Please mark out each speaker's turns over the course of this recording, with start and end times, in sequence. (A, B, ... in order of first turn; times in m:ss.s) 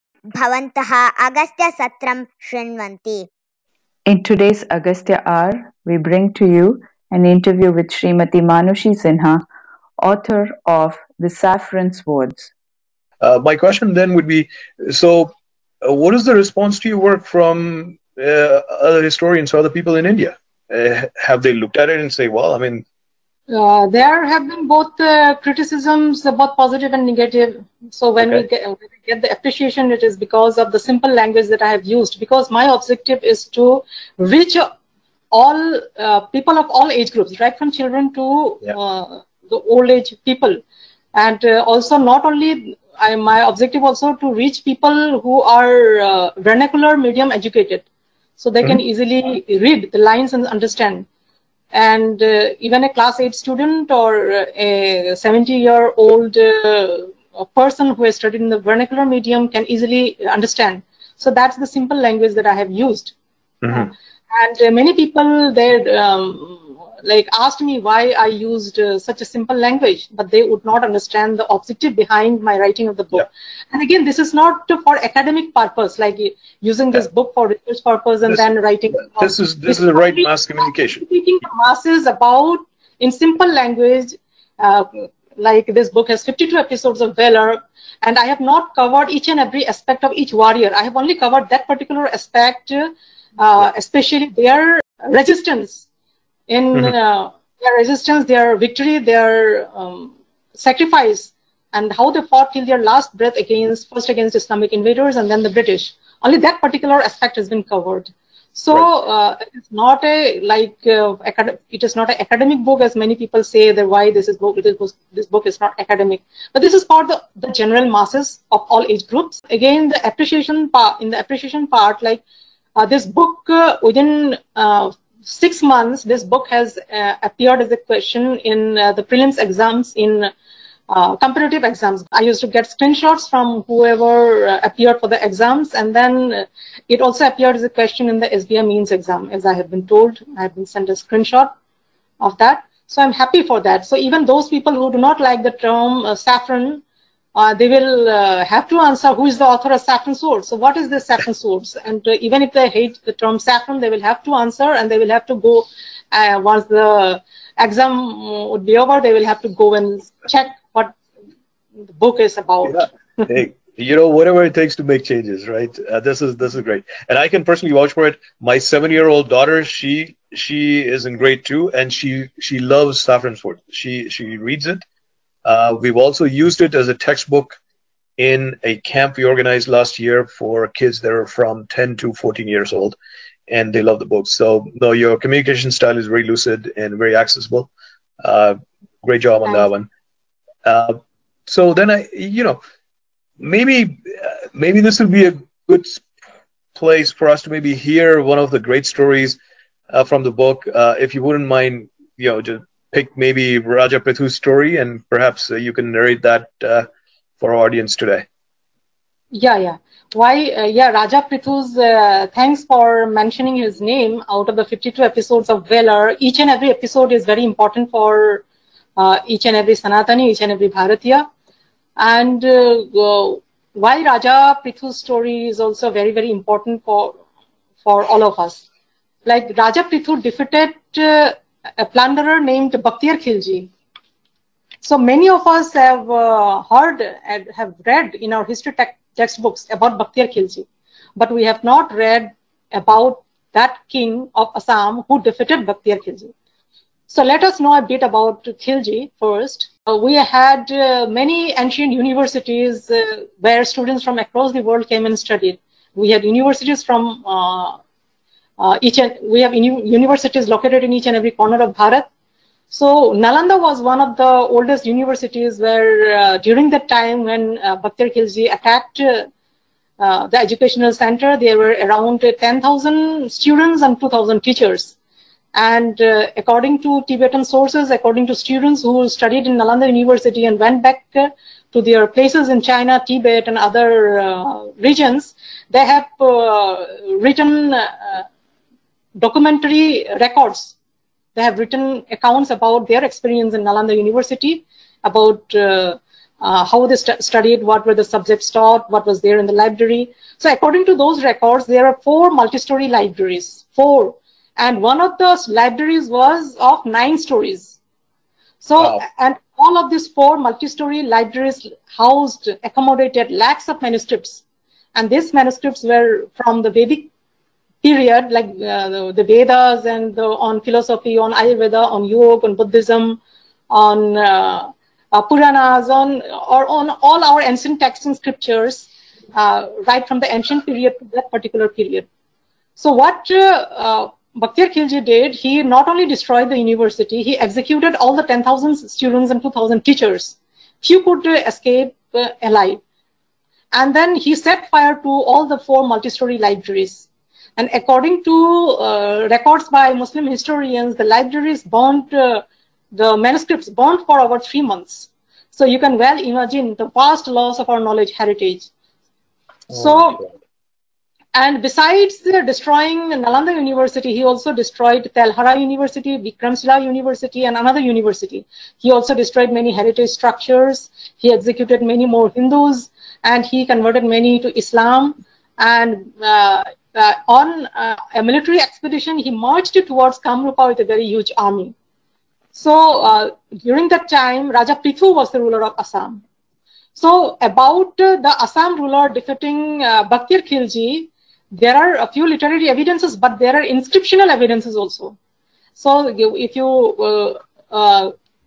0:00.3-0:03.3 A
0:04.1-0:09.4 B
0:10.0-0:12.5 B
0:13.2-0:15.3 C
0:15.8-0:22.8 C
0:23.5-0:34.7 D
0:28.2-0:28.4 C
0:35.3-0:40.6 D
0:41.1-0:47.8 D
0:48.4-0:51.1 D
0:51.7-1:03.1 D
1:03.6-1:03.9 C
1:03.7-1:35.8 D
1:19.0-1:21.0 C
1:36.5-2:02.2 D
2:02.8-2:10.3 D
2:10.9-2:21.5 D
2:22.2-2:26.8 D
2:27.4-2:41.0 D
2:41.9-2:43.3 D
2:42.6-2:54.8 C
2:55.4-2:57.6 C
2:58.2-3:03.0 C
3:03.5-3:07.7 C
3:08.2-3:09.9 C
3:09.4-3:09.7 D
3:10.6-3:12.6 C
3:13.4-3:16.0 C
3:16.8-3:19.4 C
3:19.9-3:26.9 C
3:27.4-3:28.2 C
3:29.3-3:38.4 D
3:39.0-3:41.2 D
3:42.0-3:47.2 D
3:47.8-3:48.6 D
3:49.2-3:53.7 D
3:54.8-4:06.3 D
4:07.1-4:17.8 D
4:18.6-4:22.1 D
4:22.7-4:29.3 D
4:30.0-4:35.0 D
4:35.5-4:48.2 D
4:49.2-4:50.8 D
4:51.4-5:07.8 D
5:08.6-5:14.4 D
5:08.8-5:09.0 C
5:14.9-5:17.1 D
5:17.8-5:32.1 D
5:32.8-5:42.8 D
5:43.7-5:58.7 D
5:59.7-6:00.2 D
5:59.7-6:00.3 C
6:01.3-6:21.7 D
6:22.5-6:26.2 D
6:27.0-6:35.2 D
6:35.8-6:38.1 D